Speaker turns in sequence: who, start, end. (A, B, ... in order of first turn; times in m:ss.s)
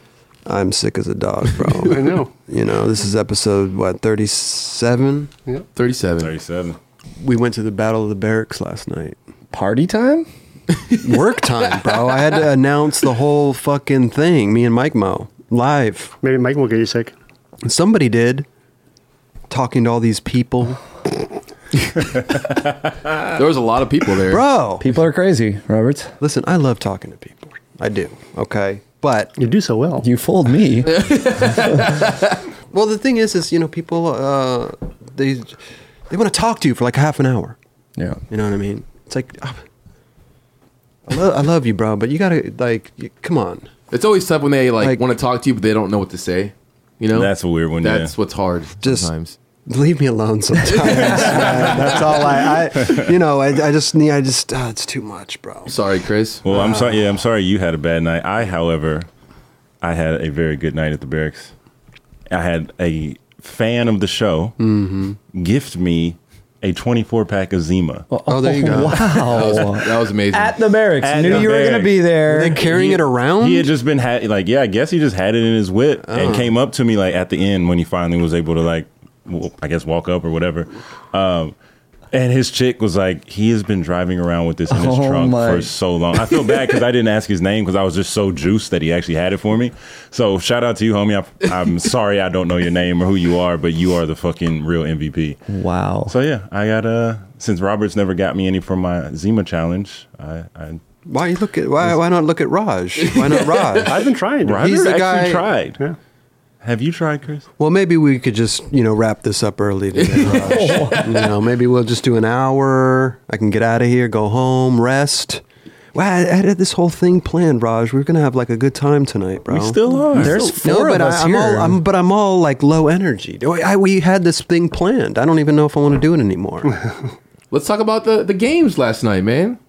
0:00.4-0:05.3 A
0:01.8-0:02.3 B
0:05.8-0:06.3 C
0:06.2-0:06.8 D
0:07.2-0:09.2 A
0:09.5-0:10.3 E
0:11.0-0:16.1 A
0:16.2-0:17.1 B
0:17.6-0:18.5 A
0:19.5-0:20.8 A
0:23.2-0:24.4 C
0:24.3-0:24.8 A
0:24.8-0:26.1 E
0:26.2-0:29.3 A
0:29.4-0:30.1 B
0:30.0-0:31.1 E
0:30.9-0:32.3 C
0:32.7-0:37.6 A
0:38.3-0:39.6 A
0:41.1-0:43.7 A
0:43.9-0:49.4 C
0:47.1-0:48.1 D
0:48.8-0:49.1 A
0:49.7-0:55.8 A
0:51.0-0:52.0 D
0:55.7-0:56.4 C
0:56.4-0:59.1 D
0:56.5-0:57.0 A
0:59.8-1:01.5 D
1:02.3-1:04.6 D
1:04.6-1:05.2 A
1:05.3-1:08.1 D
1:08.1-1:12.6 E
1:08.3-1:09.5 A
1:09.2-1:10.6 C
1:11.0-1:12.0 D
1:12.3-1:13.7 A
1:12.7-1:21.5 D
1:16.1-1:16.5 A
1:22.1-1:35.4 D
1:24.7-1:25.7 E
1:35.5-1:36.1 E
1:36.1-1:40.8 D
1:41.1-1:45.5 A
1:43.0-1:43.9 C
1:43.8-1:44.7 B
1:44.4-1:45.8 D
1:46.6-1:47.5 D
1:47.6-1:55.4 A
1:50.0-1:51.3 C
1:50.3-1:51.0 E
1:55.9-2:06.7 A
1:59.5-2:00.5 D
2:00.1-2:00.5 C
2:00.1-2:01.8 E
2:07.5-2:09.6 C